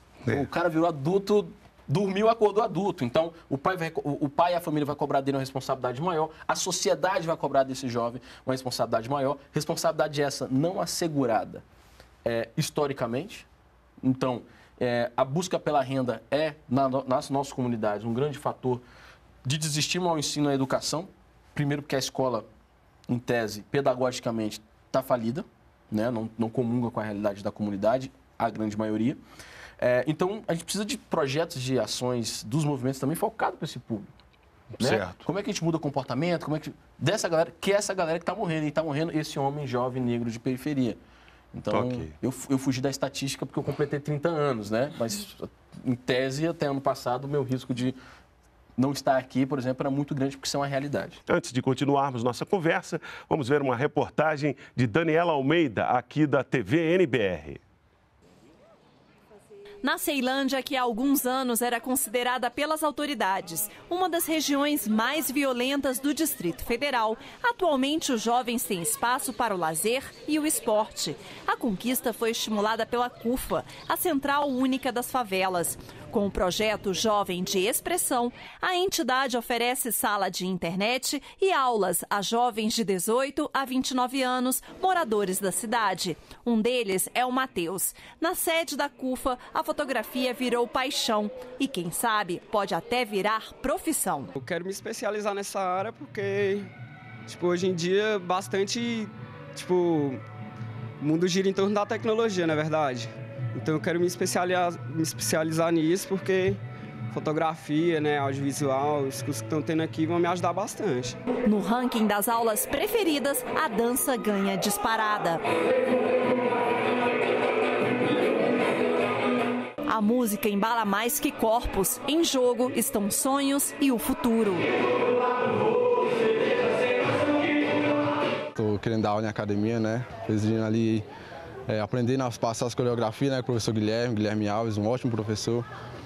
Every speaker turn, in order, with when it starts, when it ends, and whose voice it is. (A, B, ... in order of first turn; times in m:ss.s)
0:00.3-0:11.6 A
0:12.2-0:13.5 A
0:14.0-0:18.8 A
0:19.4-0:22.4 A
0:23.1-0:29.2 A
0:29.8-0:34.1 A
0:34.8-0:35.2 B
0:34.8-0:41.0 A
0:41.5-0:48.0 A
0:41.7-0:42.1 B
0:48.8-0:51.2 A
0:51.3-0:57.6 B
0:59.8-1:34.3 C
1:34.4-1:36.7 D
1:37.2-1:40.2 D
1:41.0-1:46.6 D
1:47.1-1:51.2 D
1:51.4-1:55.4 C
1:59.9-2:04.7 C
2:08.5-2:11.0 E
2:11.7-2:15.6 E